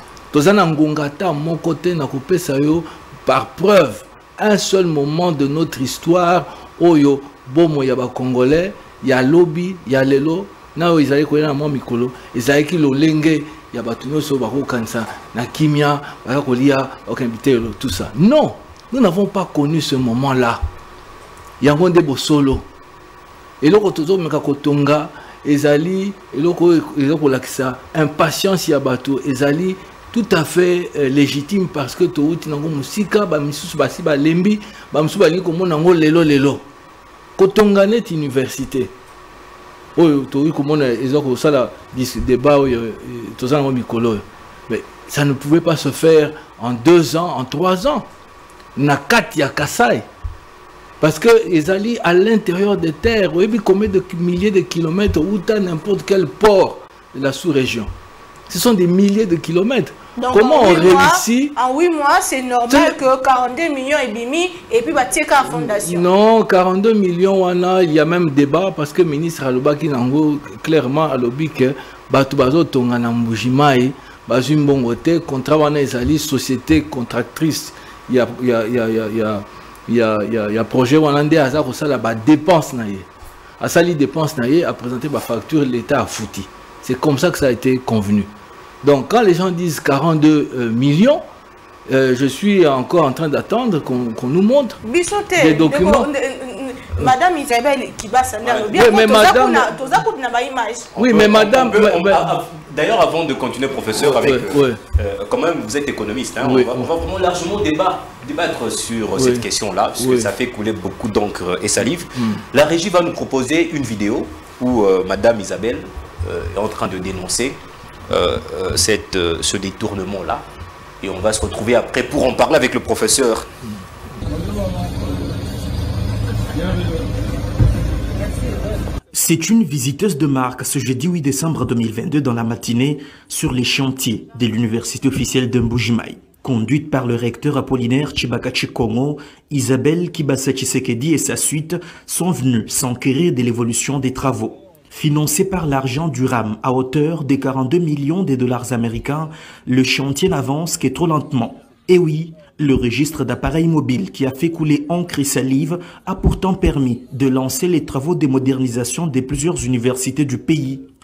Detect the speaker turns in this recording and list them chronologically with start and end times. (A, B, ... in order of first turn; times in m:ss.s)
0:00.3-0:20.6 A
0:21.6-0:22.7 A
0:23.6-0:36.6 A
0:37.4-0:38.9 A
0:40.0-0:48.1 A
0:48.8-0:50.1 A
0:51.0-0:57.9 A
0:58.5-1:01.5 A
1:00.2-1:06.0 B
1:02.7-1:03.0 A
1:05.4-1:23.1 A
1:23.6-1:28.3 A
1:28.8-1:31.2 A
1:31.9-1:34.8 A
1:34.8-1:40.9 B
1:35.4-1:36.1 A
1:38.4-1:38.8 C
1:38.7-1:39.8 A
1:41.0-1:42.3 A
1:41.0-2:00.4 C
1:44.0-1:44.8 A
1:46.4-1:46.9 A
1:49.2-1:49.4 A
1:50.0-1:50.3 A
1:52.1-1:52.4 A
2:01.0-2:03.5 C
2:09.1-2:40.9 D